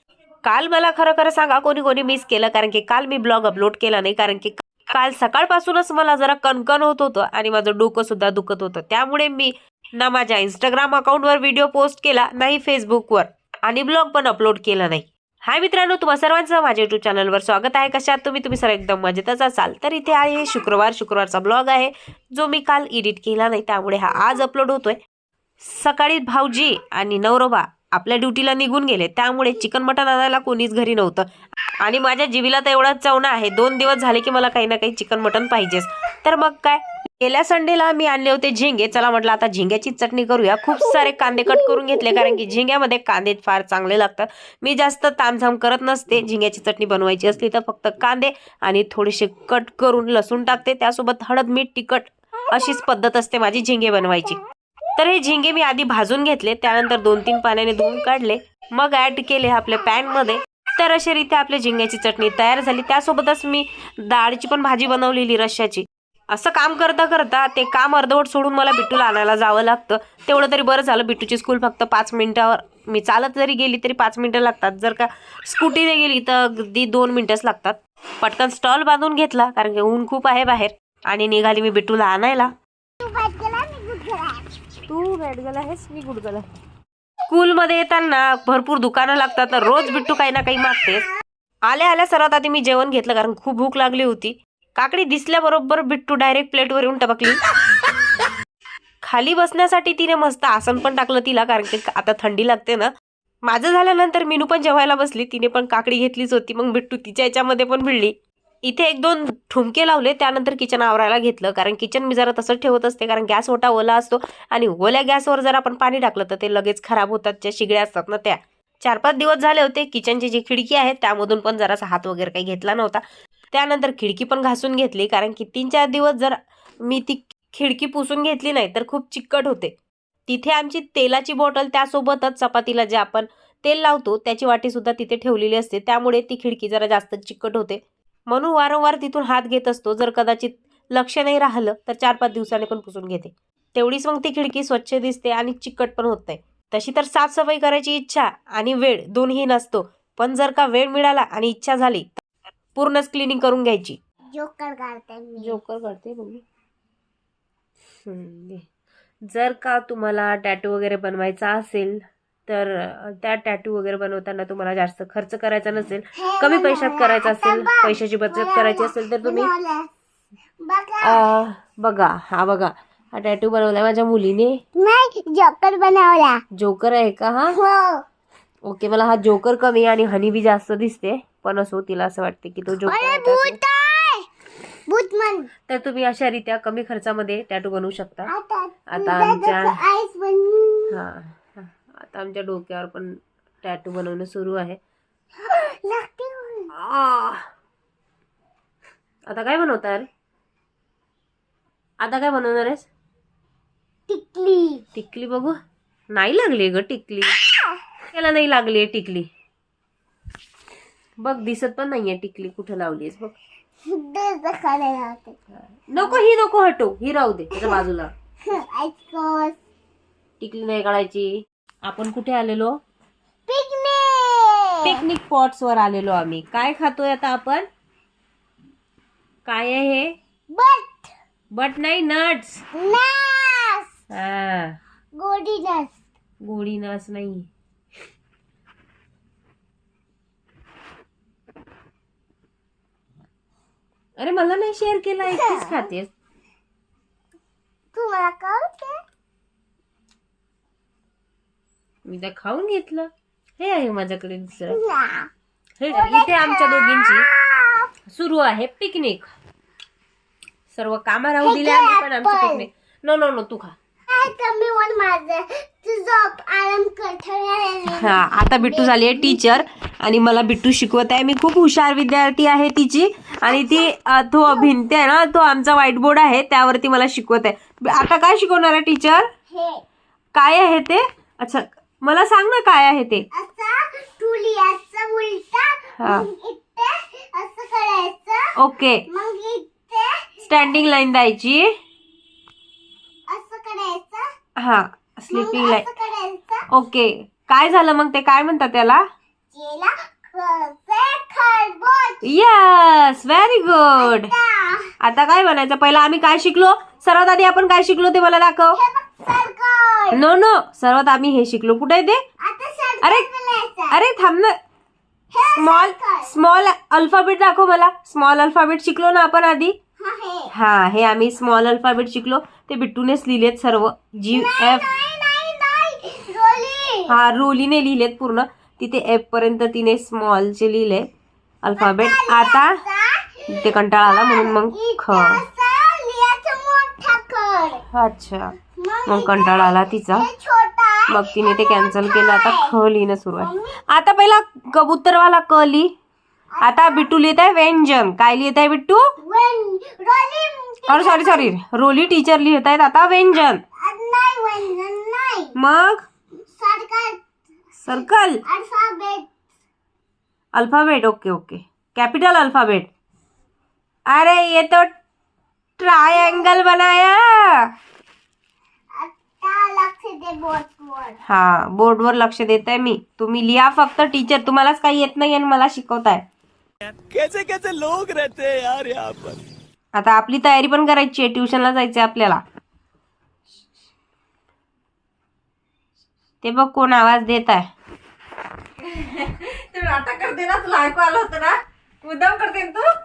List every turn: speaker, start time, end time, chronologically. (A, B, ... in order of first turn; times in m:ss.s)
0:00.4-0:25.0 A
0:25.6-0:54.4 A
0:40.8-0:42.4 B
0:54.9-1:22.5 A
1:23.0-1:24.5 B
1:24.9-1:26.5 A
1:27.3-1:31.1 A
1:31.7-1:37.4 A
1:39.0-1:42.9 A
1:43.5-1:48.1 A
1:48.6-2:09.7 A
2:10.3-2:32.1 A
2:32.7-2:34.0 A
2:34.3-2:35.6 B
2:35.4-2:36.4 A
2:38.0-2:38.6 A
2:39.2-2:49.5 A
2:46.2-2:49.9 B
2:50.6-2:51.3 B
2:51.0-2:54.6 A
2:54.7-2:56.4 B
2:56.5-2:57.6 A
2:57.5-2:58.0 B
2:58.6-3:03.6 A
3:02.8-3:04.3 B
3:04.9-3:05.5 B
3:05.7-3:08.3 A
3:08.3-3:10.9 B
3:08.9-3:09.8 A
3:10.9-3:14.8 A
3:15.4-3:16.7 B
3:16.7-3:17.4 A
3:19.3-3:20.1 A
3:22.0-3:22.9 A
3:24.1-3:24.8 B
3:24.9-3:25.6 A
3:26.1-3:27.4 A
3:28.1-3:29.3 A
3:31.2-3:33.3 A
3:33.9-3:35.4 B
3:35.5-3:38.1 A
3:38.4-3:39.6 B
3:40.4-3:42.8 A
3:43.5-3:44.9 B
3:44.8-3:47.7 A
3:49.4-3:50.1 A
3:50.5-3:51.1 B
3:51.5-3:52.6 A
3:52.7-3:53.9 B
3:54.1-3:54.8 A
3:55.1-3:56.0 B
3:56.4-3:57.5 A
4:04.2-4:06.1 A
4:05.3-4:05.8 B
4:07.9-4:09.0 B
4:12.0-4:14.8 A
4:14.7-4:15.3 B
4:15.8-4:17.2 A
4:15.9-4:17.9 B
4:18.1-4:19.3 A
4:20.7-4:23.7 A
4:21.4-4:22.7 B
4:24.1-4:29.4 B
4:28.0-4:39.3 A
4:33.4-4:33.9 B
4:34.5-4:34.7 B
4:39.5-4:39.8 B
4:40.3-4:43.2 A
4:43.3-4:48.5 B
4:46.0-4:46.3 A
4:48.6-4:49.0 A
4:49.1-4:50.7 B
4:50.4-4:51.7 A
4:53.3-4:54.3 B
4:54.6-4:55.8 A
4:55.3-4:56.6 B
4:56.7-4:59.0 A
4:59.5-5:02.3 B
5:02.2-5:04.3 A
5:04.0-5:04.9 B
5:05.0-5:08.8 A
5:08.7-5:10.2 B
5:10.1-5:12.2 A
5:12.4-5:14.0 B
5:13.9-5:14.6 A
5:15.3-5:16.3 B
5:15.6-5:19.8 A
5:20.0-5:20.5 B
5:20.5-5:24.8 A
5:24.3-5:27.1 B
5:27.1-5:31.0 A
5:31.6-5:32.8 A
5:31.8-5:37.8 B
5:33.5-5:35.4 A
5:37.9-5:38.5 A
5:38.8-5:42.7 B
5:39.0-5:40.3 A
5:41.1-5:45.9 A
5:43.4-5:43.8 B
5:46.6-5:47.1 B
5:46.6-5:49.1 A
5:49.2-5:51.5 B
5:50.9-5:53.6 A
5:53.8-5:55.5 B
5:55.6-5:56.0 A
5:56.5-5:57.2 B
5:57.8-5:58.4 A
5:57.9-5:59.3 B
6:00.5-6:02.9 A
6:04.1-6:04.9 A
6:05.8-6:07.7 A
6:06.1-6:06.6 B
6:08.9-6:11.2 B
6:11.2-6:16.2 A
6:16.9-6:19.4 C
6:19.9-6:22.4 A
6:26.4-6:27.7 A
6:28.9-6:32.9 D